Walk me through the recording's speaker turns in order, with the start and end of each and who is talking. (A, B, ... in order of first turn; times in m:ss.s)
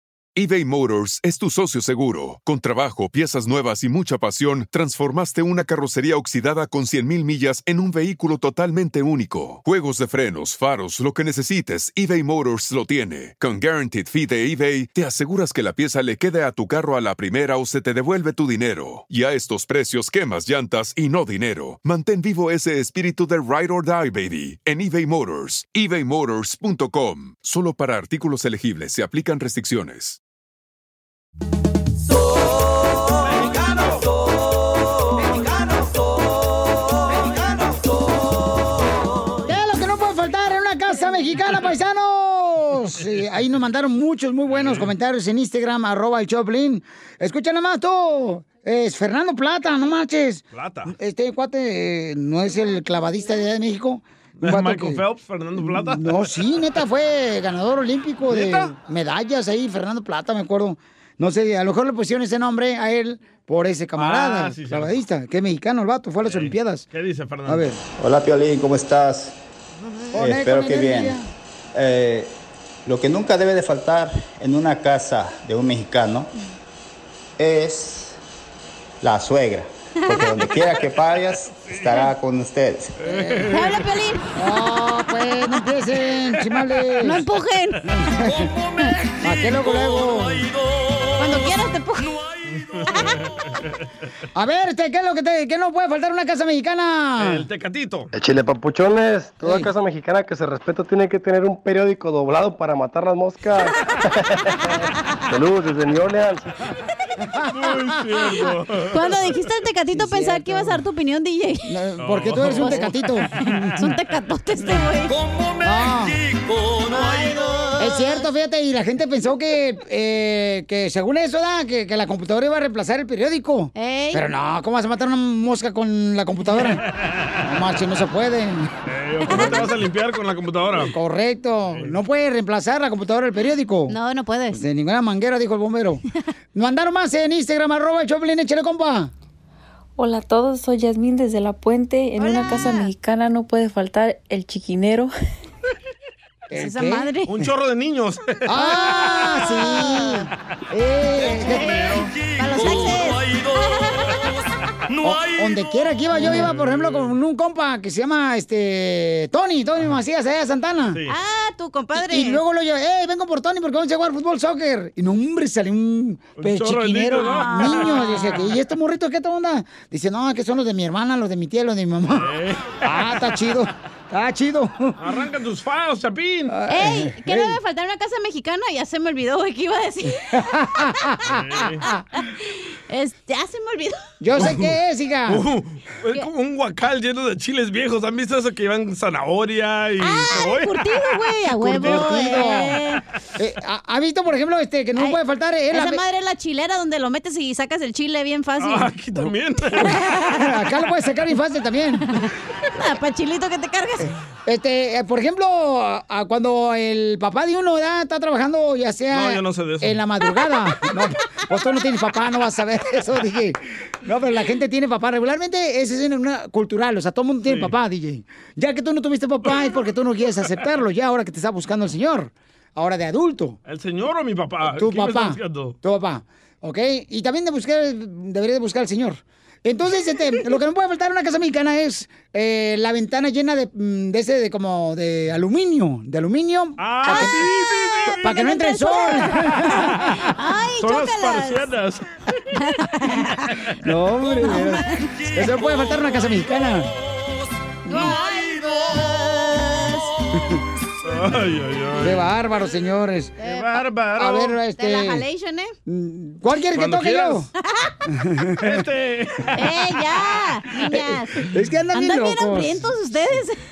0:00.4-0:30.2 A
0:33.2-0:34.0 B
0:39.4-0:55.0 C
0:44.5-0:44.9 B
0:50.5-0:50.9 B
0:54.4-0:56.3 B
0:55.6-1:06.8 C
0:58.3-0:58.7 B
1:04.0-1:05.0 B
1:06.2-1:07.7 B
1:07.4-1:07.8 C
1:08.0-1:09.3 D
1:10.1-1:11.2 C
1:10.1-1:11.2 D
1:11.7-1:12.3 D
1:12.8-1:16.3 D
1:17.4-1:18.2 D
1:19.0-1:23.0 D
1:20.0-1:20.4 E
1:23.0-1:23.4 B
1:23.0-1:23.7 C
1:23.5-1:24.6 E
1:24.4-1:27.2 C
1:27.0-1:27.8 E
1:27.9-1:28.5 C
1:28.4-1:28.9 B
1:29.2-1:30.4 C
1:31.2-1:32.1 E
1:32.5-1:33.6 B
1:34.3-1:37.5 C
1:37.2-1:38.1 B
1:38.2-1:43.7 F
1:45.3-1:46.4 F
1:47.3-1:48.4 C
1:47.5-1:49.3 B
1:48.9-1:51.7 E
1:49.9-1:50.8 C
1:51.7-1:53.8 C
1:52.0-1:53.1 B
1:52.6-1:52.9 E
1:53.7-1:55.1 E
1:55.6-1:56.2 C
1:56.9-1:57.4 E
1:57.8-2:06.8 C
2:03.8-2:04.2 E
2:06.5-2:07.4 B
2:07.4-2:08.7 C
2:08.9-2:10.9 B
2:09.2-2:09.7 C
2:09.3-2:09.6 E
2:10.8-2:13.9 C
2:13.9-2:14.6 E
2:14.5-2:16.0 C
2:16.5-2:19.1 C
2:20.0-2:25.1 G
2:22.2-2:22.9 E
2:26.5-2:27.1 C
2:26.5-2:27.4 E
2:27.3-2:28.2 B
2:28.4-2:32.0 C
2:31.4-2:33.9 E
2:35.0-2:41.0 C
2:36.2-2:37.1 B
2:41.1-2:42.4 E
2:41.9-2:55.0 C
2:46.4-2:48.4 B
2:47.1-2:48.5 E
2:52.2-2:53.0 B
2:55.0-2:56.5 B
2:56.5-2:57.6 C
2:56.7-3:00.2 E
3:00.3-3:02.0 C
3:01.3-3:01.8 B
3:01.8-3:04.0 E
3:04.2-3:05.4 C
3:04.4-3:04.7 B
3:05.3-3:12.1 B
3:10.0-3:13.0 E
3:11.6-3:12.8 C
3:13.4-3:16.0 C
3:15.7-3:18.9 E
3:18.6-3:20.0 B
3:19.8-3:20.3 E
3:19.9-3:22.0 C
3:22.8-3:24.1 E
3:24.4-3:43.6 C
3:29.1-3:30.0 B
3:37.5-3:37.7 B
3:43.6-3:45.8 B
3:44.7-3:57.4 C
3:56.8-3:58.2 B
3:57.0-3:57.4 E
3:58.1-4:01.7 E
3:58.2-3:59.5 C
3:59.7-4:00.2 B
4:00.8-4:02.0 B
4:02.6-4:03.5 E
4:03.8-4:06.9 C
4:04.4-4:05.1 E
4:07.8-4:08.2 C
4:07.9-4:10.1 E
4:11.0-4:12.3 B
4:12.0-4:13.3 C
4:13.4-4:13.7 E
4:13.4-4:14.6 B
4:14.2-4:15.2 C
4:14.8-4:15.7 E
4:15.9-4:17.5 C
4:16.7-4:17.5 B
4:18.1-4:18.8 C
4:18.6-4:20.6 B
4:19.5-4:23.6 E
4:20.9-4:22.9 C